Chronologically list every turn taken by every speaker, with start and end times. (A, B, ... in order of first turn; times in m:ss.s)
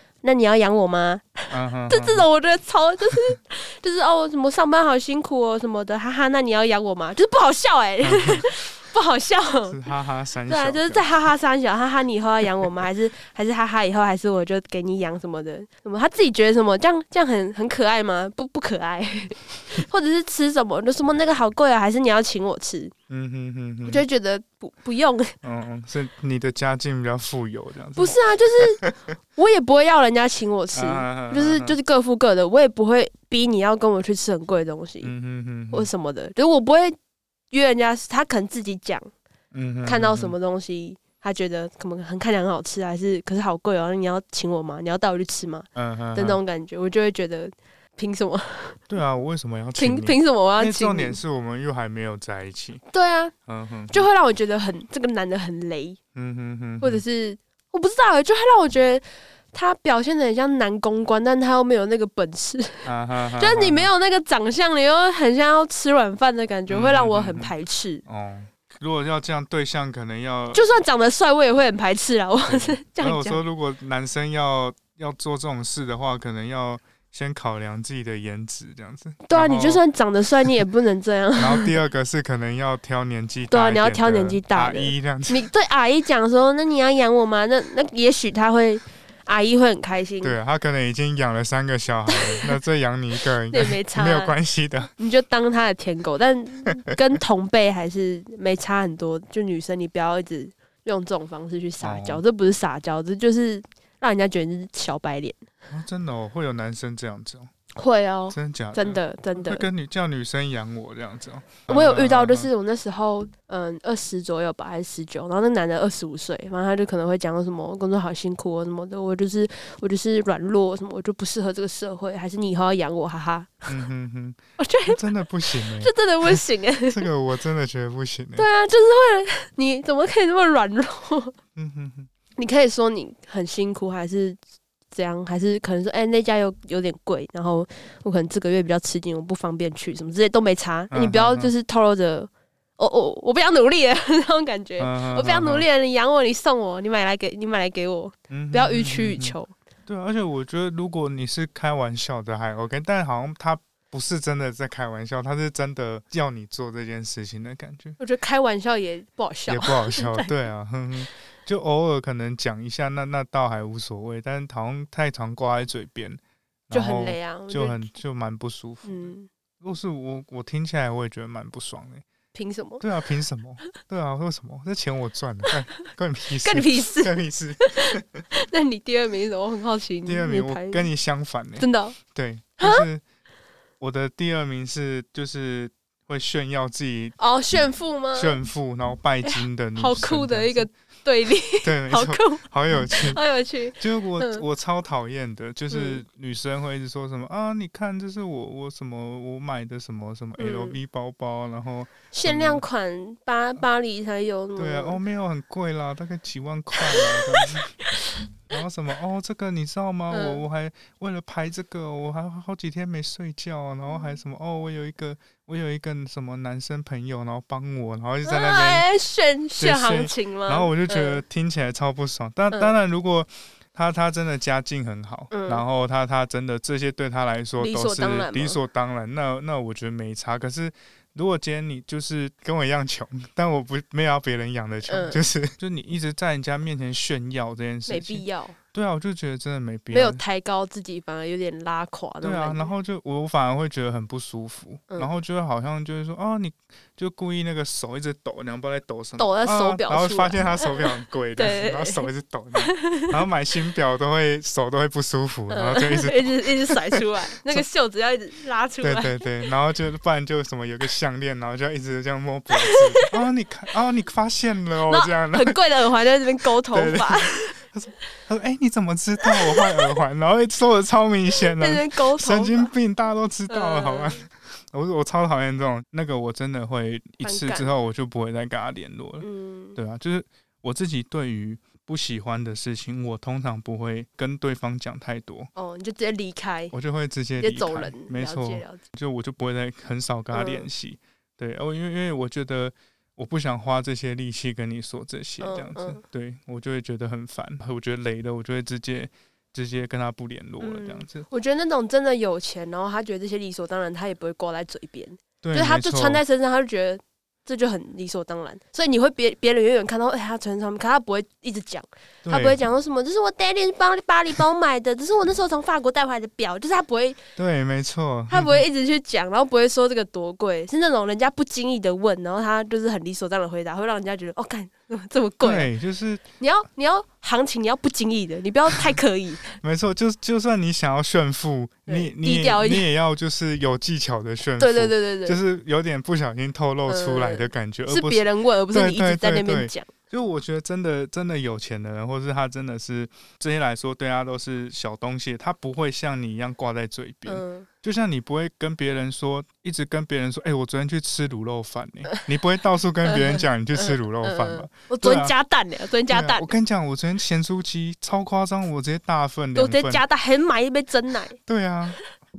0:00.2-0:09.8 A
0:01.5-0:02.2 B
0:08.0-0:08.4 B
0:09.7-0:11.0 B
0:10.5-0:22.9 A
0:23.1-0:24.0 B
0:23.8-0:25.3 A
0:25.4-0:28.9 B
0:28.0-0:28.8 A
0:29.4-0:35.1 A
0:30.7-0:31.8 B
0:35.0-0:35.9 B
0:35.7-0:37.0 A
0:37.5-0:39.1 A
0:39.5-0:40.3 B
0:39.8-0:48.8 A
0:45.7-0:46.4 B
0:48.9-0:52.8 B
0:49.8-0:51.2 A
0:52.9-0:53.3 A
0:53.5-0:54.1 B
0:53.9-0:56.0 A
0:56.1-0:57.0 B
0:56.8-1:08.0 A
1:02.8-1:03.9 B
1:06.7-1:07.5 B
1:08.0-1:10.6 B
1:10.5-1:13.4 A
1:12.5-1:19.8 B
1:19.2-1:21.7 A
1:21.4-1:25.4 B
1:23.5-1:30.4 A
1:30.2-1:34.9 B
1:32.1-1:32.6 A
1:33.5-1:34.3 A
1:35.0-1:45.4 A
1:41.8-1:42.2 B
1:45.7-1:47.5 B
1:47.7-1:49.7 A
1:48.3-1:52.5 B
1:51.7-2:03.7 A
2:03.7-2:08.5 B
2:04.6-2:05.0 A
2:05.6-2:07.0 A
2:08.4-2:11.3 A
2:11.6-2:12.1 B
2:12.4-2:14.4 A
2:14.9-2:29.5 A
2:20.9-2:21.5 B
2:24.8-2:25.6 B
2:28.3-2:29.4 B
2:29.9-2:38.0 B
2:38.0-2:40.3 A
2:39.5-2:52.0 B
2:46.7-2:47.8 A
2:48.8-2:49.3 A
2:52.3-2:52.8 A
2:52.8-2:58.2 B
2:56.4-3:00.9 A
3:00.0-3:03.0 B
3:01.6-3:02.0 A
3:03.8-3:07.2 B
3:07.2-3:08.4 A
3:08.1-3:10.7 B
3:09.2-3:14.4 A
3:11.6-3:13.2 B
3:13.8-3:22.6 B
3:15.7-3:16.0 A
3:20.4-3:20.8 A
3:22.1-3:25.0 A
3:24.6-3:27.8 B
3:26.8-3:28.2 A
3:28.5-3:38.9 B
3:30.1-3:30.4 A
3:38.2-3:41.2 A
3:39.6-4:00.2 B
3:45.3-3:45.6 A
3:47.6-3:48.6 A
3:54.9-3:55.2 A
3:57.9-3:58.6 A
3:59.9-4:02.7 A
4:02.2-4:17.6 B
4:09.2-4:12.1 A
4:12.6-4:13.2 A
4:15.5-4:19.2 A
4:18.8-4:25.6 B
4:22.5-4:23.2 A
4:24.9-4:27.6 A
4:26.7-4:45.5 B
4:29.2-4:29.9 A
4:31.4-4:32.7 A
4:33.5-4:34.2 A
4:37.2-4:37.7 A
4:39.2-4:39.8 A
4:45.5-4:46.7 A
4:46.7-5:01.3 B
4:47.4-4:48.8 A
4:50.3-4:50.7 A
4:55.4-4:56.0 A
5:00.6-5:17.2 A
5:05.4-5:06.2 B
5:12.2-5:12.6 B
5:17.4-5:18.6 B
5:18.3-5:25.7 A
5:25.4-5:26.2 B
5:26.4-5:29.6 A
5:29.6-5:55.3 B
5:31.9-5:32.9 A
5:34.6-5:35.4 A
5:36.9-5:39.9 A
5:47.2-5:47.7 A
5:53.0-5:56.5 A
5:56.1-6:00.0 B
5:59.5-6:01.4 A
6:01.4-6:02.0 B